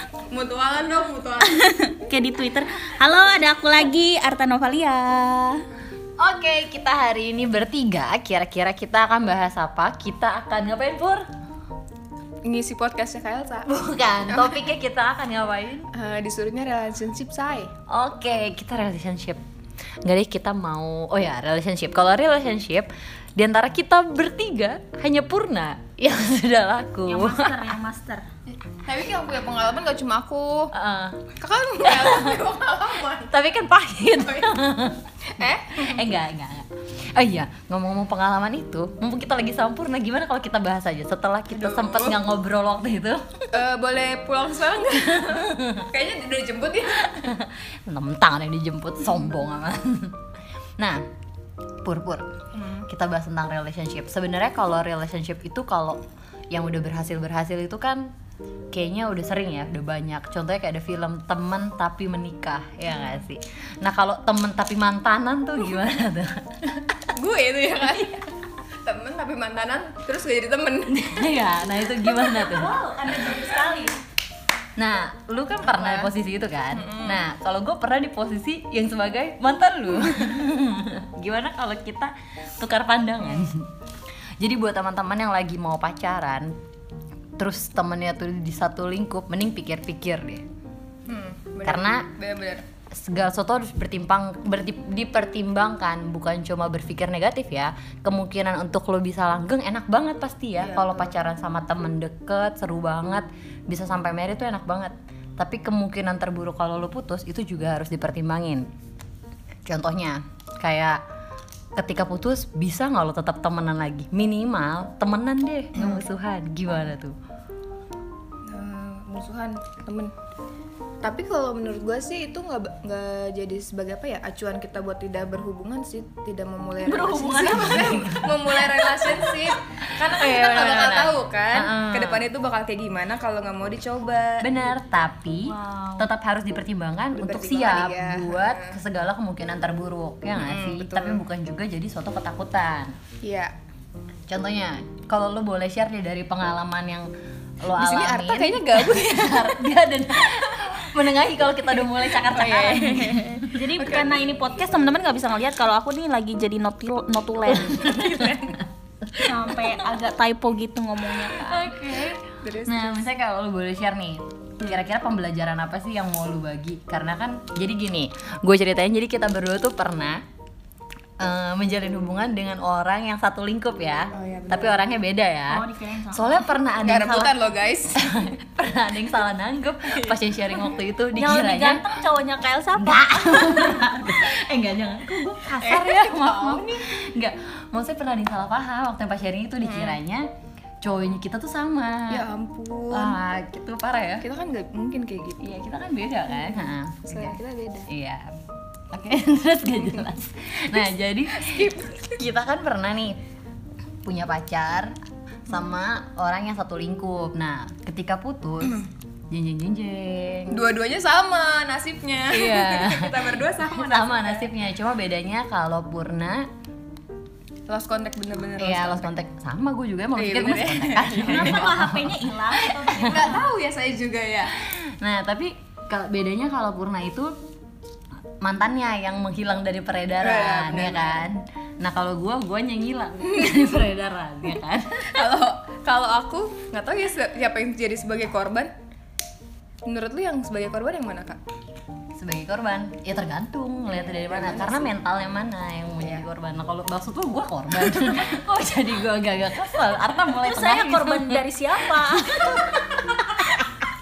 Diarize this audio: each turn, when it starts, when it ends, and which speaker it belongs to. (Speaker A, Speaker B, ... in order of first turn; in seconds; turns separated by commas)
Speaker A: 0.3-1.7, Speaker B: 1.6-5.6, Speaker C: 6.2-11.2, Speaker A: 12.4-13.7, Speaker C: 13.6-15.9, Speaker A: 14.2-14.6, Speaker A: 15.9-17.7, Speaker C: 17.9-19.4, Speaker C: 20.0-27.5, Speaker B: 27.0-28.3, Speaker A: 28.7-30.7, Speaker C: 30.7-31.3, Speaker A: 31.4-33.3, Speaker C: 31.8-32.4, Speaker C: 33.2-43.6, Speaker A: 34.2-34.5, Speaker A: 35.4-36.1, Speaker A: 41.5-42.3, Speaker A: 43.5-47.2, Speaker C: 45.6-45.8, Speaker C: 47.1-50.2, Speaker C: 50.8-51.0, Speaker C: 51.8-52.3, Speaker A: 52.5-52.9, Speaker C: 52.9-56.0, Speaker C: 56.5-58.1, Speaker C: 58.7-66.9, Speaker A: 62.9-63.2, Speaker A: 67.1-68.3, Speaker A: 68.8-71.3, Speaker C: 71.0-72.7, Speaker B: 72.4-74.0, Speaker C: 74.8-83.7, Speaker A: 75.6-76.1, Speaker A: 76.7-77.2, Speaker A: 83.2-83.5, Speaker C: 84.4-86.5, Speaker C: 87.4-90.4, Speaker A: 91.1-92.6, Speaker C: 91.6-92.0, Speaker C: 92.9-108.6, Speaker A: 100.6-101.2, Speaker C: 109.7-111.0, Speaker C: 111.8-117.1, Speaker A: 115.7-116.0, Speaker A: 118.5-120.1, Speaker A: 121.0-134.7, Speaker B: 126.9-127.7, Speaker C: 126.9-132.3, Speaker C: 134.4-142.9, Speaker B: 135.4-136.1, Speaker A: 137.2-138.8, Speaker A: 140.3-141.2, Speaker A: 143.2-143.5, Speaker C: 144.3-147.1, Speaker C: 147.6-153.5, Speaker A: 147.8-149.6, Speaker A: 152.2-154.1, Speaker B: 153.5-158.1, Speaker C: 157.5-158.4, Speaker A: 158.1-158.6, Speaker B: 159.2-161.8, Speaker C: 161.3-170.2, Speaker A: 162.4-162.9, Speaker C: 171.2-177.4, Speaker A: 174.2-174.8, Speaker B: 175.5-176.5, Speaker A: 176.7-178.1, Speaker C: 178.0-181.8, Speaker B: 181.2-183.8, Speaker C: 182.8-190.3, Speaker A: 185.6-186.8, Speaker A: 189.6-190.0, Speaker C: 190.8-192.2, Speaker A: 192.1-193.2, Speaker C: 192.9-194.2, Speaker A: 194.2-195.6, Speaker C: 195.4-197.4, Speaker A: 196.3-197.9, Speaker C: 197.9-198.3, Speaker C: 198.9-203.2, Speaker A: 201.3-202.2, Speaker C: 204.0-204.9, Speaker C: 205.5-210.7, Speaker A: 210.5-214.5, Speaker C: 212.3-216.5, Speaker A: 217.7-219.2, Speaker C: 218.6-223.2, Speaker A: 220.2-221.7, Speaker B: 221.2-223.5, Speaker A: 222.9-224.6, Speaker C: 225.0-227.3, Speaker C: 228.4-235.0, Speaker A: 230.2-231.3, Speaker A: 235.0-238.7, Speaker A: 239.9-241.4, Speaker C: 242.2-251.4, Speaker A: 244.1-244.9, Speaker A: 246.0-246.2, Speaker B: 250.3-252.8, Speaker C: 252.0-253.6